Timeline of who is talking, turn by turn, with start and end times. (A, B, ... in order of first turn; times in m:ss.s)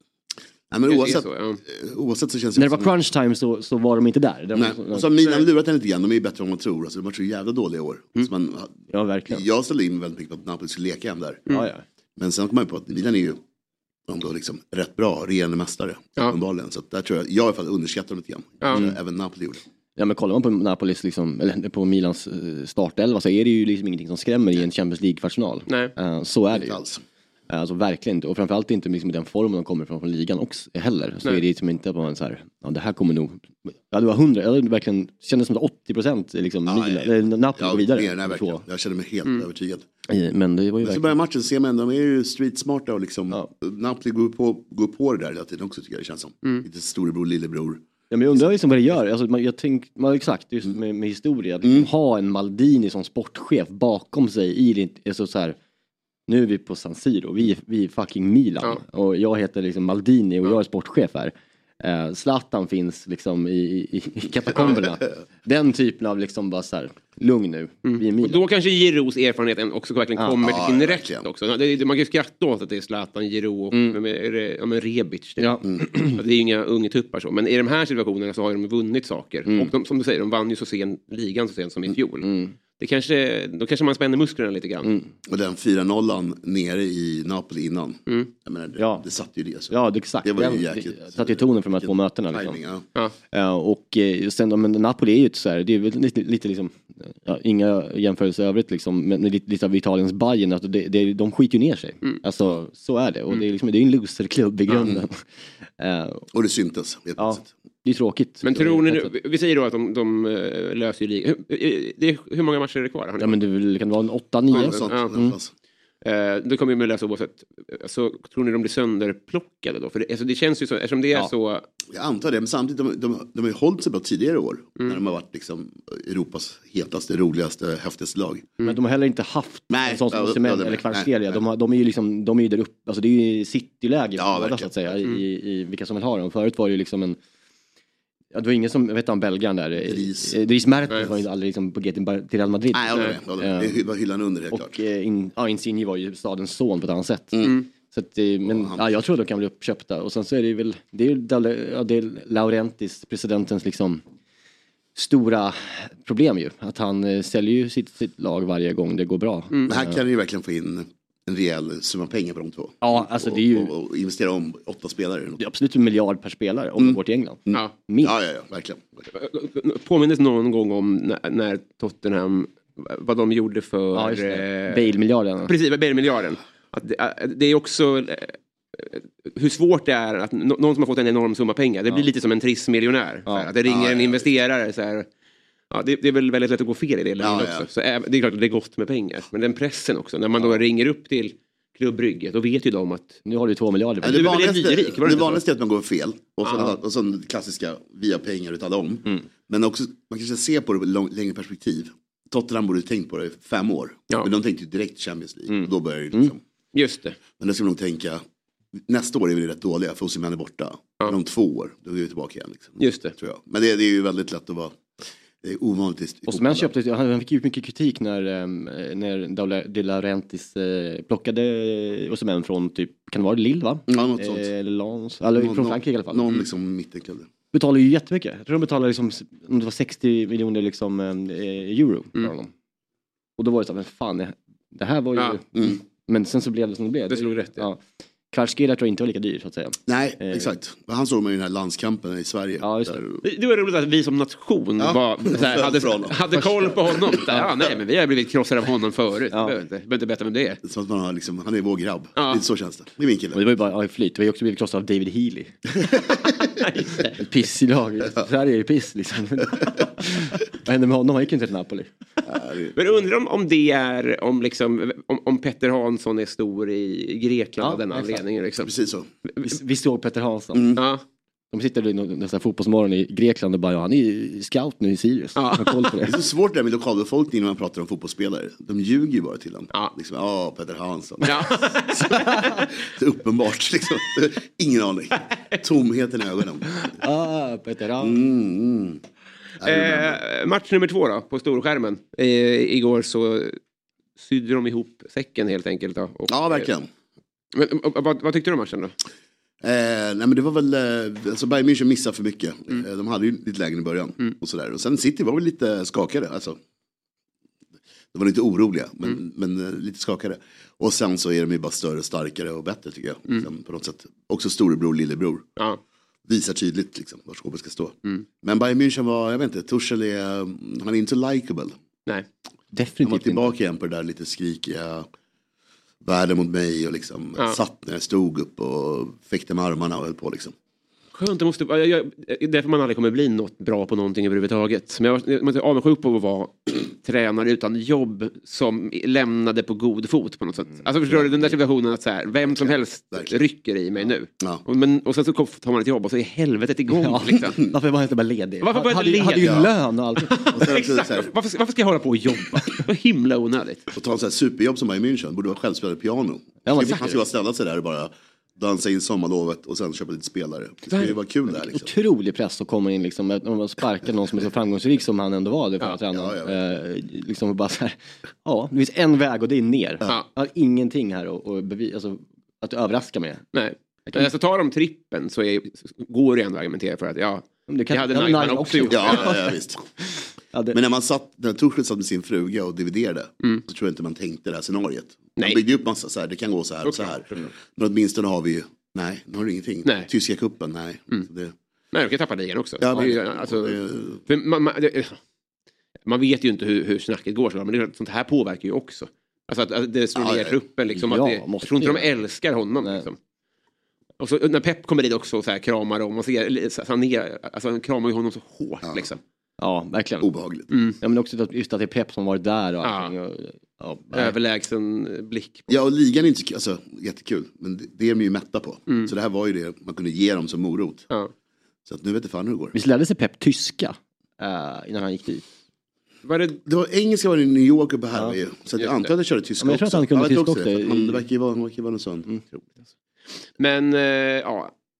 0:00.7-0:02.9 A
0:00.8-0:01.6 B
0:02.6-0:05.1 C
0:04.5-0:11.4 A
0:08.9-0:09.4 C
0:11.5-0:11.8 C
0:12.2-0:13.4 A
0:14.1-0:19.6 A
0:18.6-0:18.9 B
0:20.0-0:26.8 C
0:25.7-0:25.9 B
0:26.5-0:27.0 A
0:27.5-0:38.6 C
0:36.6-0:39.9 A
0:40.1-0:41.2 C
0:40.8-0:48.5 A
0:48.1-0:55.6 C
0:51.6-0:51.9 A
0:56.3-1:08.4 C
1:04.5-1:04.8 B
1:07.8-1:22.3 B
1:10.4-1:11.2 A
1:13.7-1:14.0 C
1:15.4-1:16.2 C
1:22.2-1:22.6 C
1:22.8-1:24.9 B
1:24.8-1:25.1 C
1:25.3-1:32.8 A
1:28.8-1:29.0 C
1:29.7-1:32.6 C
1:33.3-1:45.2 C
1:45.8-1:46.2 C
1:46.3-1:47.5 A
1:47.2-1:49.1 C
1:48.4-1:53.4 B
1:53.2-1:55.4 C
1:54.5-1:55.5 A
1:54.5-1:55.1 B
1:56.0-2:01.6 B
2:01.9-2:08.5 A
2:08.6-2:17.2 C
2:09.7-2:11.4 A
2:14.2-2:14.7 A
2:18.3-2:23.8 C
2:19.8-2:20.4 A
2:22.7-2:24.8 A
2:24.5-2:34.0 C
2:27.3-2:27.6 A
2:28.4-2:28.9 A
2:34.9-2:40.0 C
2:39.7-2:45.4 A
2:42.8-2:43.7 C
2:45.4-2:48.1 C
2:46.8-2:49.0 A
2:49.1-2:54.9 B
2:53.9-2:55.5 C
2:55.4-3:05.0 B
3:03.6-3:04.2 A
3:05.7-3:13.2 B
3:07.2-3:07.7 A
3:13.2-3:14.4 C
3:14.0-3:26.4 A
3:14.1-3:15.4 B
3:25.5-3:26.3 C
3:26.7-3:27.2 B
3:27.4-3:28.2 A
3:28.9-3:34.8 A
3:32.8-3:33.1 B
3:35.4-3:36.7 A
3:36.3-3:46.3 C
3:43.9-3:44.5 A
3:45.4-3:47.3 A
3:47.5-3:52.5 C
3:53.4-3:57.8 C
3:57.1-3:57.6 B
3:58.3-4:00.5 C
3:59.9-4:03.2 A
4:02.6-4:03.0 C
4:03.2-4:10.6 B
4:04.8-4:07.3 A
4:10.6-4:13.4 A
4:12.2-4:12.4 B
4:13.3-4:15.7 C
4:16.6-4:17.1 B
4:17.1-4:21.9 C
4:22.2-4:22.8 A
4:22.7-4:28.7 B
4:27.6-4:28.2 C
4:28.6-4:29.1 A
4:29.4-4:30.7 C
4:30.5-4:30.8 A
4:30.8-4:31.0 B
4:31.5-4:36.1 C
4:35.4-4:36.0 B
4:36.0-4:46.9 A
4:41.2-4:42.2 B
4:42.2-4:42.6 C
4:47.0-4:48.2 C
4:48.0-4:49.0 A
4:49.6-4:50.2 A
4:49.6-4:53.6 B
4:54.2-4:56.7 B
4:56.3-4:56.9 A
4:57.5-4:58.9 B
4:59.6-5:06.6 A
5:08.1-5:15.5 A
5:16.2-5:21.7 A
5:22.7-5:23.5 C
5:23.0-5:25.1 A
5:26.0-5:30.5 A
5:31.1-5:47.6 B
5:42.6-5:43.3 A
5:46.9-5:50.4 C
5:48.6-5:49.7 B
5:49.4-5:49.7 A
5:50.2-5:53.9 B
5:50.5-5:51.3 A
5:53.9-6:01.9 A
5:56.6-5:57.2 C
6:00.9-6:01.1 B
6:01.6-6:13.4 C
6:06.1-6:06.6 A
6:13.5-6:19.3 B
6:17.7-6:20.8 C
6:18.9-6:19.8 A
6:20.7-6:31.5 A
6:26.8-6:27.4 B
6:31.9-6:35.2 B
6:32.8-6:34.2 A
6:36.0-6:43.2 B
6:40.1-6:40.6 A
6:40.9-6:42.1 C
6:44.2-6:49.2 B
6:48.8-6:49.1 A
6:49.6-6:50.3 C
6:50.2-6:50.7 A
6:50.7-6:51.0 B
6:51.0-6:54.3 C
6:52.8-6:53.1 B
6:54.1-6:55.7 B
6:55.7-7:01.1 A
7:01.8-7:02.7 A
7:02.7-7:05.4 C
7:06.2-7:06.6 B
7:06.6-7:12.7 A
7:08.8-7:09.1 B
7:09.6-7:11.2 C
7:13.6-7:14.7 B